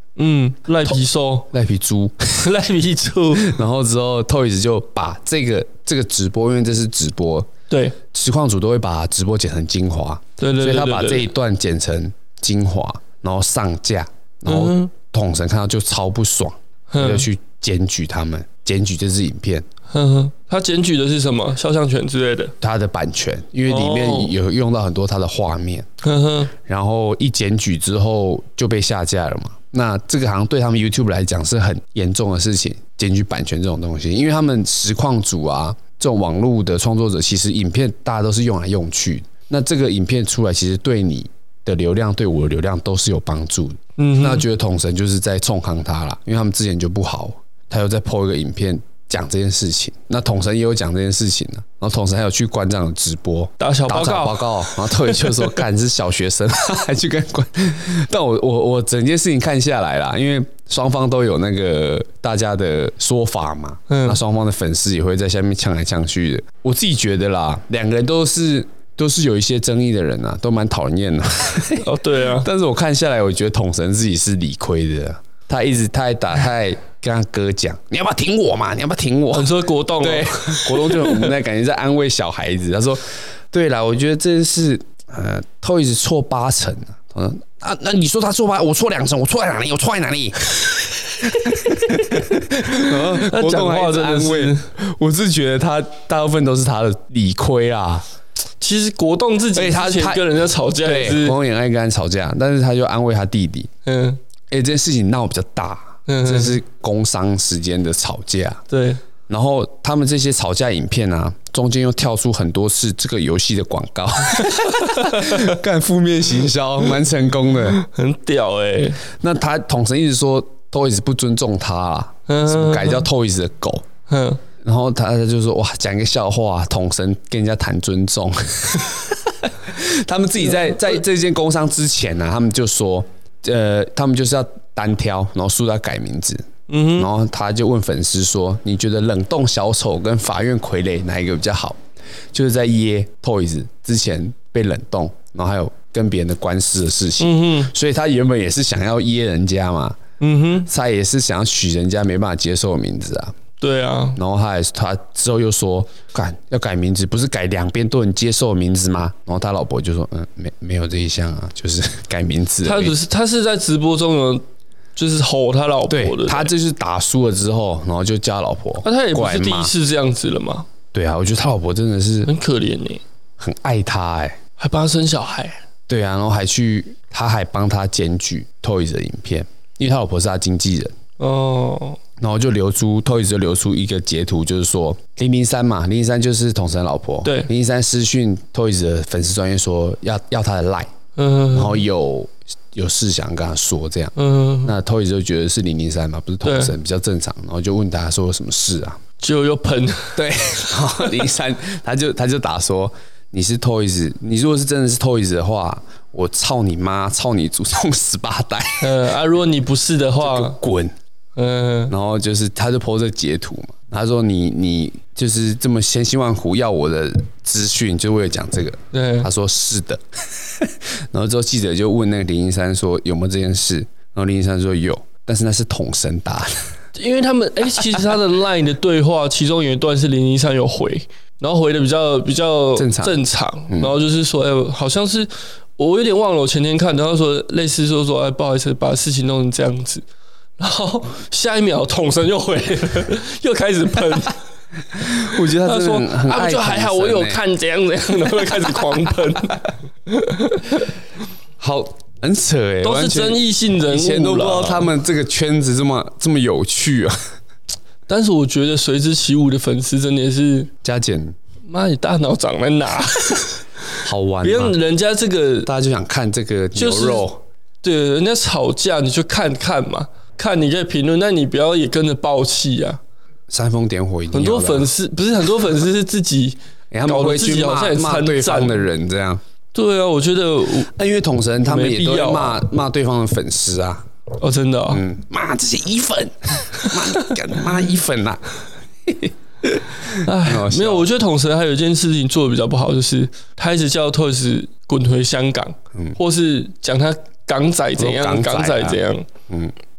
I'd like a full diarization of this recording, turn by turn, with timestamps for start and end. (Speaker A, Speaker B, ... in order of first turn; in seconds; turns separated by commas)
Speaker A: 0.1-1.5, Speaker B: 1.5-2.5, Speaker A: 2.4-3.6, Speaker B: 3.4-7.5, Speaker A: 7.7-8.0, Speaker B: 8.1-19.6, Speaker A: 10.4-11.3, Speaker A: 14.4-14.9, Speaker A: 16.9-17.3, Speaker A: 19.9-22.5, Speaker B: 22.6-25.9, Speaker A: 23.6-24.4, Speaker A: 26.0-26.5, Speaker B: 26.6-90.6, Speaker A: 44.0-44.4, Speaker A: 53.6-55.6, Speaker A: 63.9-64.2, Speaker A: 71.8-72.5, Speaker A: 79.3-81.3, Speaker B: 91.2-98.0, Speaker A: 91.4-94.7, Speaker A: 98.6-101.4, Speaker B: 99.5-100.2, Speaker B: 100.8-103.7, Speaker A: 103.8-104.2, Speaker B: 104.5-108.6, Speaker A: 106.1-106.6, Speaker A: 108.7-109.0, Speaker B: 109.3-117.8, Speaker A: 114.4-115.5, Speaker A: 117.8-119.0, Speaker B: 119.2-123.9, Speaker A: 122.3-123.0, Speaker A: 124.1-124.4, Speaker B: 124.6-141.8, Speaker A: 136.7-137.1, Speaker B: 142.3-150.0, Speaker A: 147.2-147.7, Speaker A: 150.2-150.7, Speaker B: 150.7-153.3, Speaker A: 153.6-154.2, Speaker B: 154.2-162.9, Speaker A: 162.6-164.4, Speaker A: 164.9-166.5, Speaker B: 165.9-169.7, Speaker A: 168.8-170.7, Speaker B: 170.9-172.3, Speaker A: 172.2-173.0, Speaker B: 173.4-174.4, Speaker A: 174.6-175.6, Speaker B: 175.9-180.9, Speaker A: 181.2-182.0, Speaker B: 182.2-190.9, Speaker A: 187.2-187.5, Speaker A: 191.2-191.8, Speaker B: 191.5-199.0, Speaker A: 194.2-194.7, Speaker A: 196.4-196.8, Speaker A: 199.2-201.2, Speaker B: 200.1-209.0, Speaker A: 208.8-210.6, Speaker B: 210.2-210.9, Speaker A: 211.4-211.9, Speaker B: 211.9-220.0, Speaker A: 218.9-219.3, Speaker B: 220.6-226.6, Speaker A: 226.9-240.1, Speaker B: 232.8-233.9, Speaker A: 240.6-244.4, Speaker B: 244.9-247.4, Speaker A: 245.3-250.9, Speaker B: 251.6-257.1, Speaker A: 252.8-254.9, Speaker A: 258.1-260.7, Speaker B: 260.8-261.4, Speaker A: 261.6-265.7, Speaker B: 264.0-264.8, Speaker B: 265.6-267.4, Speaker A: 266.8-267.3, Speaker A: 267.8-273.0, Speaker B: 273.5-274.9, Speaker A: 274.3-278.8, Speaker B: 276.9-279.4, Speaker A: 279.7-280.9, Speaker B: 280.9-284.1, Speaker A: 281.6-282.6, Speaker A: 284.4-285.0, Speaker B: 284.9-288.5, Speaker B: 289.1-291.1, Speaker A: 290.1-299.3, Speaker B: 298.0-299.7